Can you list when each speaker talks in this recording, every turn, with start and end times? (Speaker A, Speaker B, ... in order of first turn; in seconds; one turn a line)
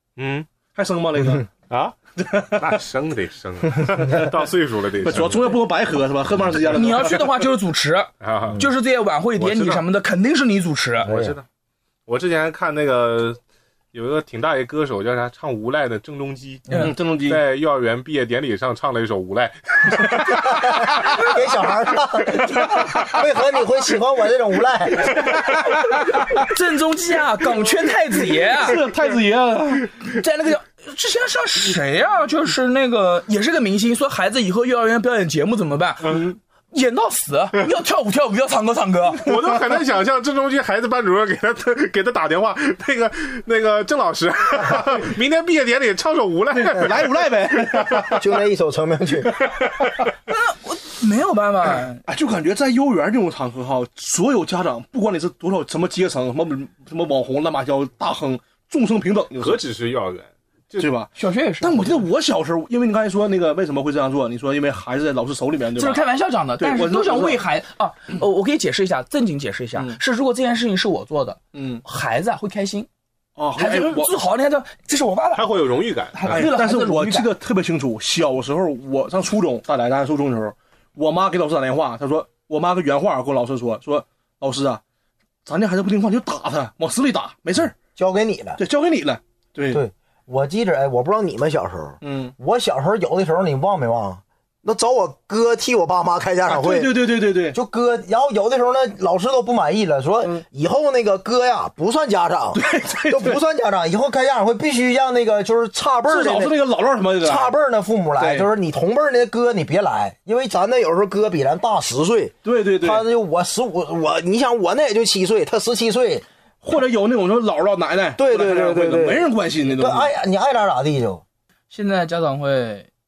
Speaker A: 0.2-0.5
Speaker B: 0.8-1.5
Speaker A: 1.7-1.9
Speaker B: 2.2-2.6
Speaker A: 2.5-5.6
Speaker B: 5.0-7.3
Speaker C: 6.7-11.1
Speaker A: 8.2-8.6
Speaker A: 9.4-9.8
Speaker A: 11.0-11.4
Speaker D: 11.0-11.4
Speaker A: 12.1-13.4
Speaker A: 13.9-21.1
Speaker C: 16.7-16.9
Speaker B: 16.7-17.4
Speaker D: 20.6-25.3
Speaker C: 25.6-28.8
Speaker B: 28.4-29.9
Speaker C: 30.0-39.3
Speaker A: 39.2-48.2
Speaker B: 46.5-48.2
Speaker D: 48.1-49.3
Speaker A: 49.5-49.9
Speaker C: 50.3-52.0
Speaker B: 52.1-59.6
Speaker A: 59.4-60.9
Speaker B: 60.8-66.0
Speaker C: 61.1-62.0
Speaker C: 65.8-72.9
Speaker B: 66.6-67.4
Speaker B: 71.5-71.8
Speaker B: 73.4-74.2
Speaker C: 73.5-77.3
Speaker A: 75.3-76.5
Speaker B: 76.3-84.8
Speaker B: 85.5-87.8
Speaker D: 88.0-88.6
Speaker B: 88.6-89.8
Speaker D: 89.7-106.6
Speaker B: 92.0-92.3
Speaker B: 96.5-97.6
Speaker B: 102.5-103.4
Speaker B: 106.1-107.5
Speaker D: 107.2-116.3
Speaker B: 108.2-108.5
Speaker B: 112.4-113.1
Speaker B: 116.6-120.1
Speaker D: 118.2-121.2
Speaker C: 121.7-122.9